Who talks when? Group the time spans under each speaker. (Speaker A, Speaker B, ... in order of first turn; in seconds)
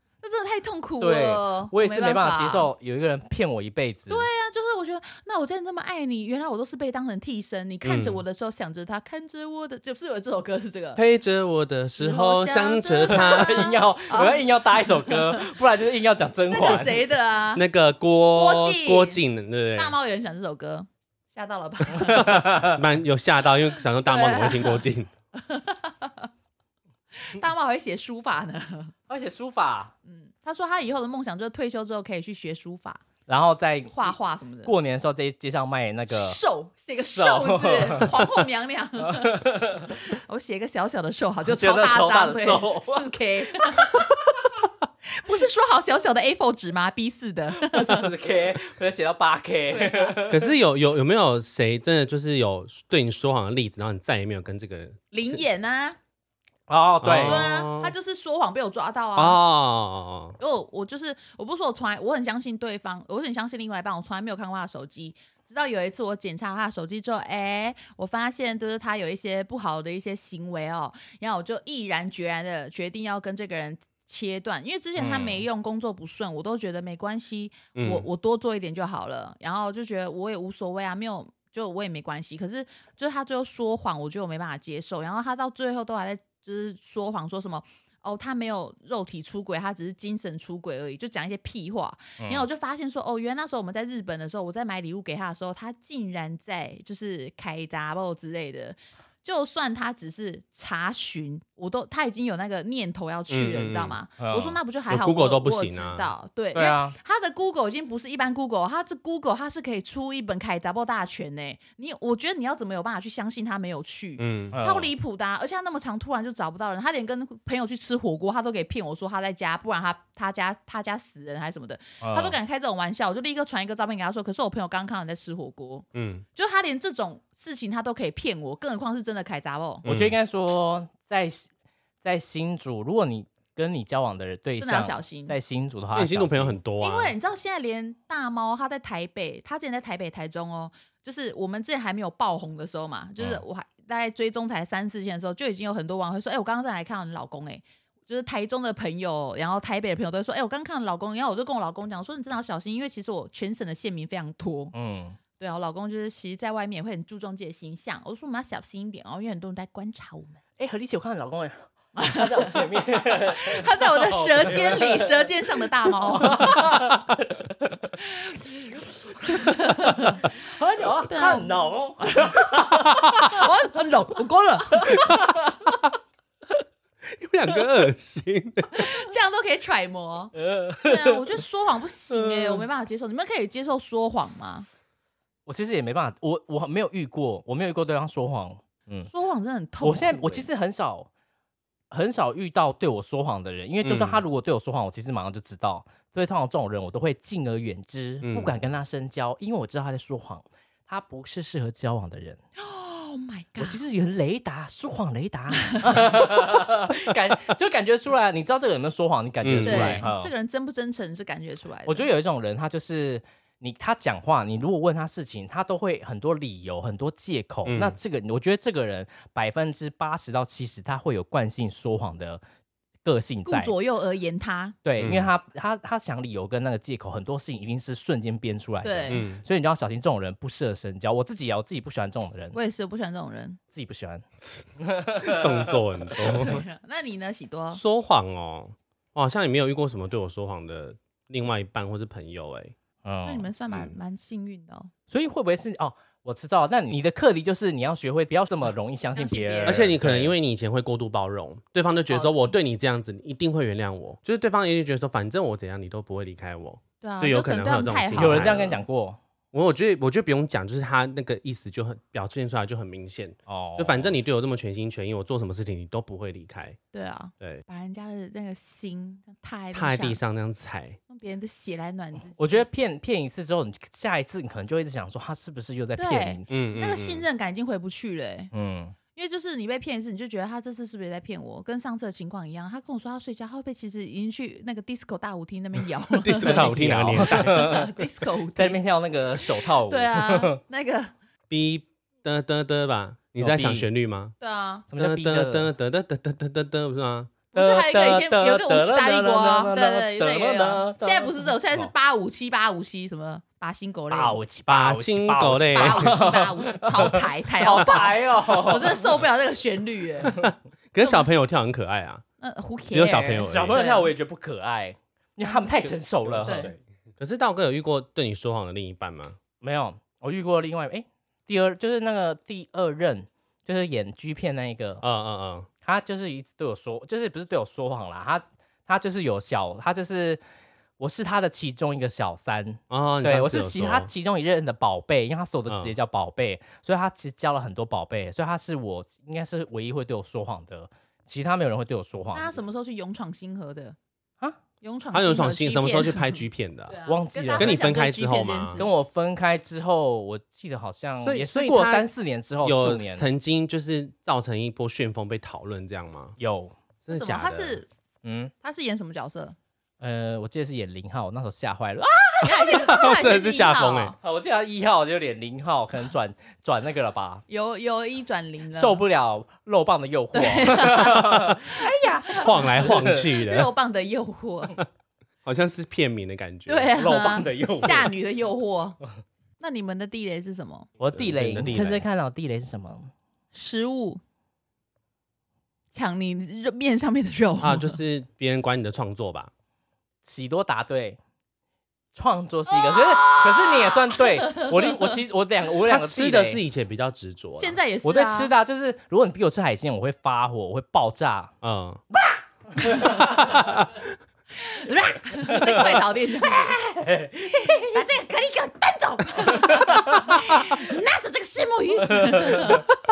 Speaker A: 0.2-2.7, 4.1-11.0, 12.0-15.5, 16.5-17.6, 18.3-19.2, 19.8-22.4, 24.0-24.8, 25.4-26.3, 27.2-28.9, 30.1-33.0, 33.9-34.7, 36.1-44.1, 45.2-48.1, 49.7-50.2, 55.1-56.0, 57.2-59.4, 60.4-129.8, 134.6-135.4, 136.8-154.7, 155.4-160.4, 161.9-167.0, 168.0-168.5, 169.2-170.3, 171.1-175.2, 178.7-184.7, 189.1-190.5, 202.6-203.8, 205.7-206.1, 209.6-212.1, 223.5-224.8, 228.8-229.2, 232.5-233.6, 236.2-237.8, 243.2-244.9, 249.2-249.9, 252.1-252.4, 257.0-258.8, 266.9-270.2, 271.1-272.6, 276.0-278.5, 279.1-288.8, 289.4-291.1, 294.4-294.9, 297.5-304.4, 305.7-310.4, 311.0-311.3, 312.4-314.1, 316.4-316.7, 342.3-344.0, 344.8-348.9, 357.1-357.9, 358.6-359.6, 362.4-364.2, 367.5-369.0, 370.3-374.8, 376.7-379.0, 379.6-380.9, 383.5-384.2, 385.9-388.0, 392.7-395.1, 397.6-398.5, 404.6-406.8, 407.4-412.9
Speaker B: 1.0-4.3, 13.1-17.0, 21.9-22.8, 29.1-29.9, 33.3-34.1, 34.6-36.4, 37.0-38.2, 39.0-40.0, 41.5-43.9, 47.6-50.5, 56.7-57.5, 75.0-75.4, 92.2-92.5, 104.2-104.6, 106.5-107.0, 114.5-114.9, 122.0-122.4, 129.8-131.5, 132.0-136.6, 154.7-155.2, 160.6-167.9, 169.2-173.5, 174.7-175.9, 180.3-181.2, 185.5-189.1, 189.8-191.1, 191.9-202.4, 203.6-210.3, 211.9-222.4, 223.0-223.7, 224.8-232.6, 233.7-234.3, 234.8-235.8, 243.1-243.5, 245.1-250.3, 258.2-259.2, 263.5-264.1, 272.4-276.4, 278.5-279.0, 286.4-288.0, 288.6-290.6, 293.4-293.9, 294.9-295.7, 297.5-301.5, 304.1-309.2, 313.4-316.7, 319.6-325.0, 325.8-330.4, 331.0-342.6, 347.1-347.8, 348.8-353.3, 356.4-356.7, 358.2-358.5, 360.0-362.7, 364.2-367.4, 368.7-373.2, 376.9-378.1, 381.0-383.1, 390.3-391.2, 392.1-396.6, 398.0-401.5, 402.3-403.6, 405.4-408.0, 409.4-410.7, 412.0-412.8
Speaker C: 7.8-8.2, 11.0-13.7, 17.5-20.0, 22.0-25.1, 50.3-55.4, 57.0-57.9, 59.2-60.4, 77.8-78.1, 103.3-104.0, 104.9-106.1, 114.2-114.6, 126.0-126.2, 129.8-130.2, 135.9-137.2, 177.1-179.1, 182.1-182.7, 193.8-194.2, 198.2-198.6, 209.4-210.0, 217.7-218.0, 225.0-225.3, 229.1-229.4, 235.2-236.7, 237.7-242.8, 243.7-243.9, 249.7-258.8, 259.5-266.8, 269.7-271.0, 276.5-277.3, 286.1-287.8, 291.5-294.3, 295.0-297.4, 304.7-306.3, 310.3-312.2, 312.9-313.8, 316.2-319.4, 325.0-325.7, 332.9-334.1, 335.7-335.9, 345.1-347.0, 347.6-348.8, 351.2-352.1, 352.6-356.4, 357.1-357.8, 362.7-364.1, 372.4-373.7, 375.4-376.9, 381.1-382.1, 387.6-389.5, 395.9-397.8, 401.6-402.0, 403.5-404.1